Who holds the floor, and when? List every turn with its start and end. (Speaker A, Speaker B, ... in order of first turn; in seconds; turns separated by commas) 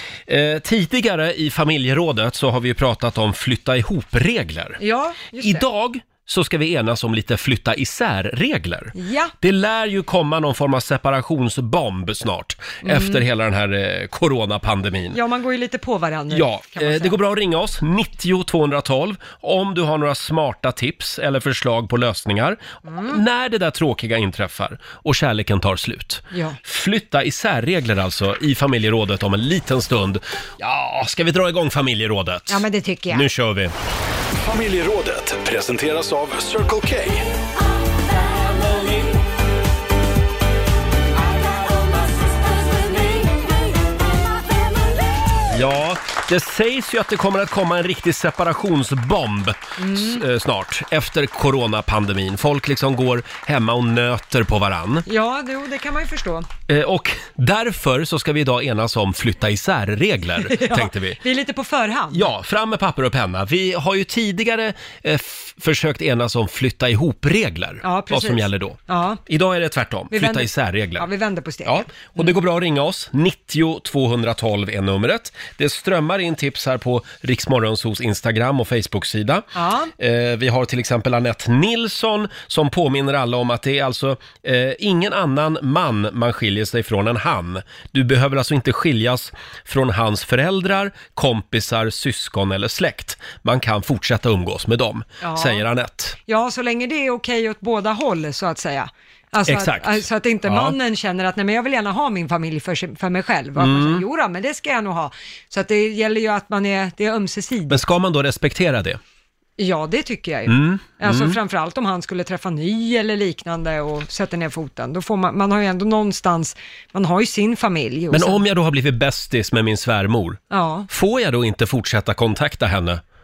Speaker A: 0.3-4.8, Speaker B: 4.8-5.7, Speaker A: 5.4-15.2, Speaker B: 9.0-9.3, Speaker B: 12.8-13.2, Speaker B: 15.1-17.2, Speaker A: 16.3-33.7, Speaker B: 22.9-23.2, Speaker B: 26.3-26.6, Speaker B: 32.5-33.3, Speaker C: 34.4-37.3, Speaker A: 45.5-55.1, Speaker B: 49.8-50.2, Speaker B: 55.1-56.5, Speaker A: 56.7-61.2, Speaker B: 60.4-62.3, Speaker A: 62.1-71.1, Speaker B: 67.8-69.2, Speaker B: 70.1-72.3, Speaker A: 71.7-79.5, Speaker B: 79.5-79.9, Speaker A: 80.0-96.2, Speaker B: 95.2-95.6, Speaker B: 96.3-107.8, Speaker A: 99.5-100.8, Speaker A: 103.6-104.0, Speaker A: 107.7-109.0, Speaker B: 109.6-118.4, Speaker A: 110.5-111.4, Speaker A: 118.1-123.0, Speaker B: 120.5-120.9